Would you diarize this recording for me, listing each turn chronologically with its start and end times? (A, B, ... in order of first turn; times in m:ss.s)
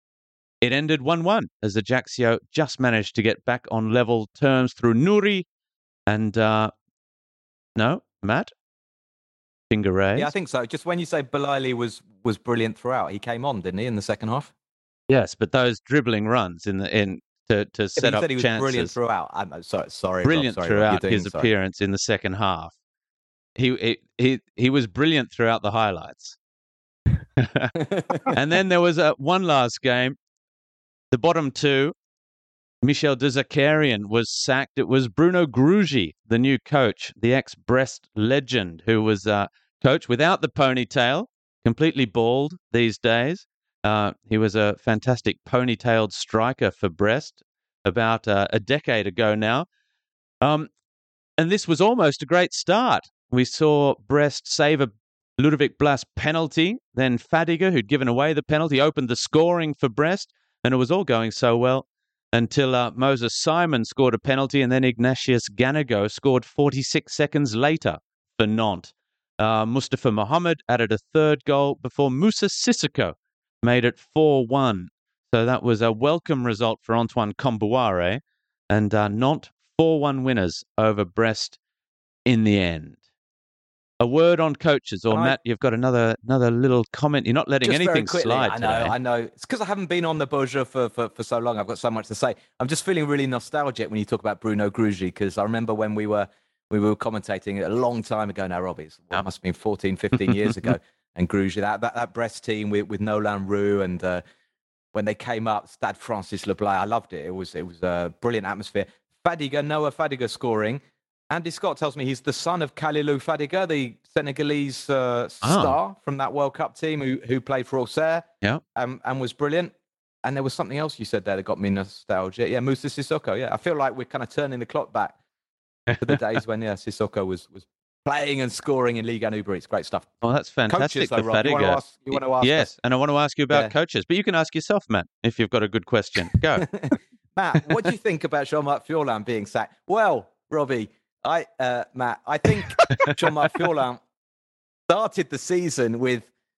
0:00.6-0:05.5 A
0:06.1-0:06.7 A
0:07.8-0:08.5 A
0:09.7-0:10.3 A
0:10.2-0:14.5 B
0:15.1-0:18.9 A
0:18.0-0:21.5 B
0:20.2-0:22.7 A
0:23.6-0:26.4 A
0:27.4-0:27.8 A
0:28.3-0:30.2 A
0:31.1-0:31.9 A
0:32.8-0:49.7 A
0:50.4-0:50.7 A
0:51.4-1:21.6 A
1:22.2-1:23.0 A
1:24.0-1:28.9 A
1:25.1-1:25.4 B
1:27.6-1:44.2 B
1:44.9-1:58.2 B
1:55.4-1:55.8 A
1:58.8-1:59.7 B
2:00.2-2:05.2 B
2:06.0-2:10.1 B
2:10.2-2:16.7 A
2:10.7-2:12.7 B
2:16.6-2:24.0 B
2:24.9-2:26.3 B